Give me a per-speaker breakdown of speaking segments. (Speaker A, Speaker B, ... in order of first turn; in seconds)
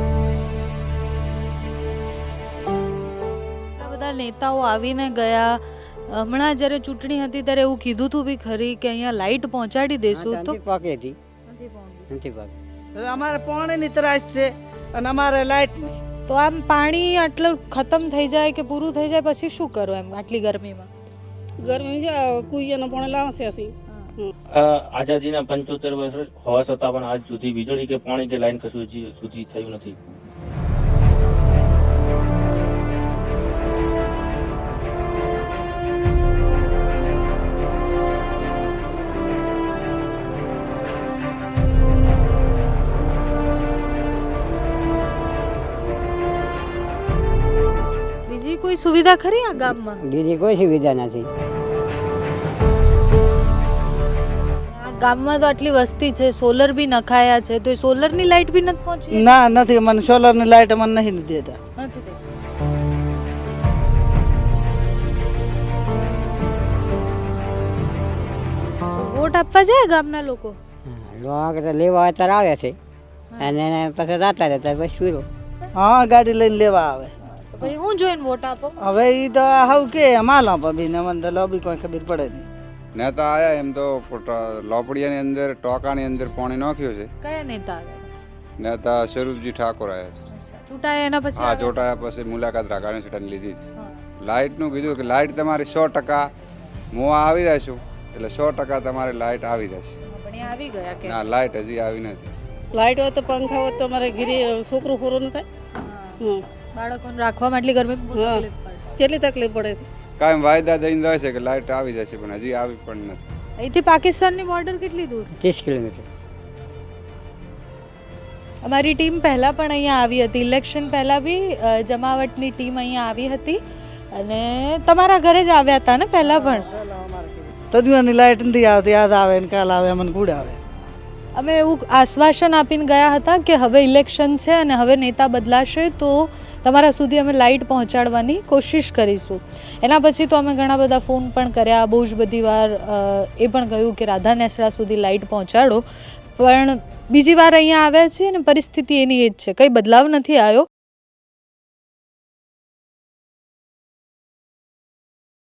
Speaker A: 3.8-10.6, 11.5-12.1, 16.3-20.9, 23.9-24.1, 48.3-50.0, 54.7-59.3, 61.8-62.2, 68.9-70.6, 77.3-78.8, 87.2-88.1, 90.3-91.8, 100.1-101.2, 105.7-108.8, 113.6-115.3, 118.6-123.6, 124.1-126.7, 131.3-145.8, 146.4-150.7
Speaker B: 10.1-11.2, 12.1-12.5, 50.0-51.3, 70.8-72.8, 73.4-75.3, 115.4-116.0
Speaker C: 12.9-16.0, 59.1-61.6, 75.8-77.1, 78.8-82.5, 126.2-130.6
Speaker D: 21.6-24.3, 102.7-105.4, 108.2-108.4, 109.0-109.8
Speaker E: 24.5-29.9
Speaker F: 82.9-87.1, 88.6-90.2, 91.3-93.6, 94.2-96.3, 96.9-99.9, 101.0-102.3, 110.2-113.2